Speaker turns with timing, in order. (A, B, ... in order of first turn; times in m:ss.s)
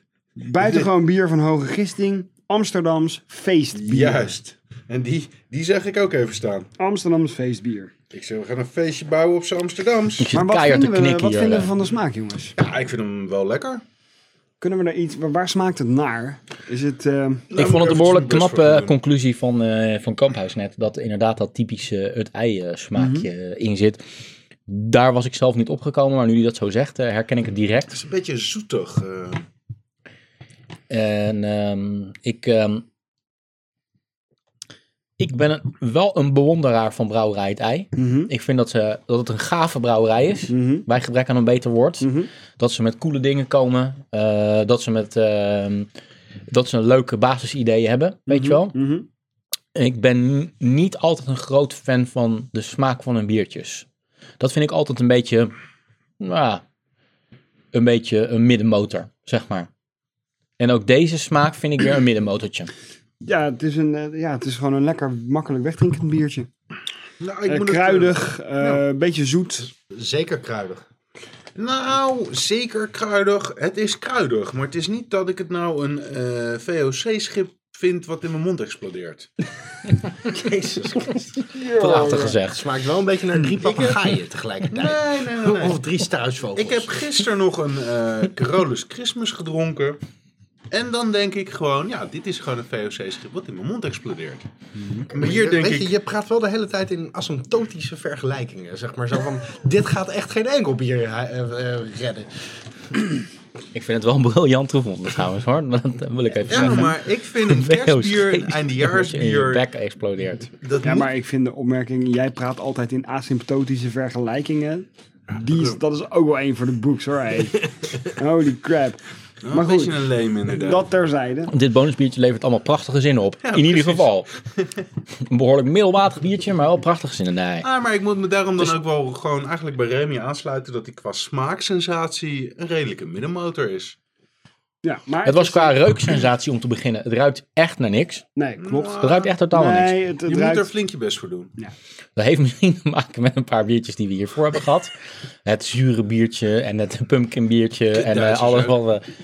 0:00.4-0:04.3 A
0:00.6-0:00.9 B
0:03.7-0:06.7 B
0:06.8-0:07.9 A
0:08.1-0:10.3 B
0:10.2-0:11.7 C
0:10.3-0:12.6 A
0:12.6-0:13.8 B
0:14.6-0:17.4 A
0:17.5-0:18.9 B
0:17.5-0:24.0 C
0:23.0-0:23.3 A
0:24.7-0:28.0 C
0:27.9-0:29.4 B
0:30.9-0:32.8 C
0:35.2-0:45.9 C
0:38.0-0:38.3 A
0:40.5-0:40.8 A
0:42.0-0:42.3 A
0:46.5-0:48.8 C
0:48.3-0:49.1 A
0:49.7-0:53.8 C
0:54.4-0:55.5 C
0:56.2-0:56.6 C
0:57.7-0:59.7 C
1:00.6-1:02.7 C
1:03.2-1:06.5 A
1:07.2-1:08.8 B
1:07.5-1:09.7 A
1:09.7-1:10.8 D
1:11.5-1:19.3 B
1:20.2-1:21.5 D
1:21.5-1:22.4 A
1:21.7-1:22.6 C
1:22.2-1:27.0 D
1:24.7-1:25.8 B
1:26.5-1:30.0 B
1:30.7-1:34.4 B
1:34.8-1:35.1 A
1:35.1-1:35.9 B
1:35.1-1:42.5 D
1:43.7-1:50.5 C
1:46.5-1:49.6 B
1:50.6-1:51.1 B
1:50.8-1:59.0 A
1:55.5-1:55.8 B
1:59.4-2:00.9 B
1:59.5-2:01.5 A
2:01.5-2:04.3 C
2:03.4-2:04.2 B
2:05.2-2:07.7 C
2:07.6-2:14.0 B
2:14.8-2:15.8 A
2:15.2-2:18.2 C
2:18.4-2:20.7 A
2:18.6-2:19.3 B
2:19.0-2:20.0 C
2:20.2-2:21.5 B
2:22.2-2:24.9 C
2:25.4-2:29.0 C
2:27.9-2:28.8 B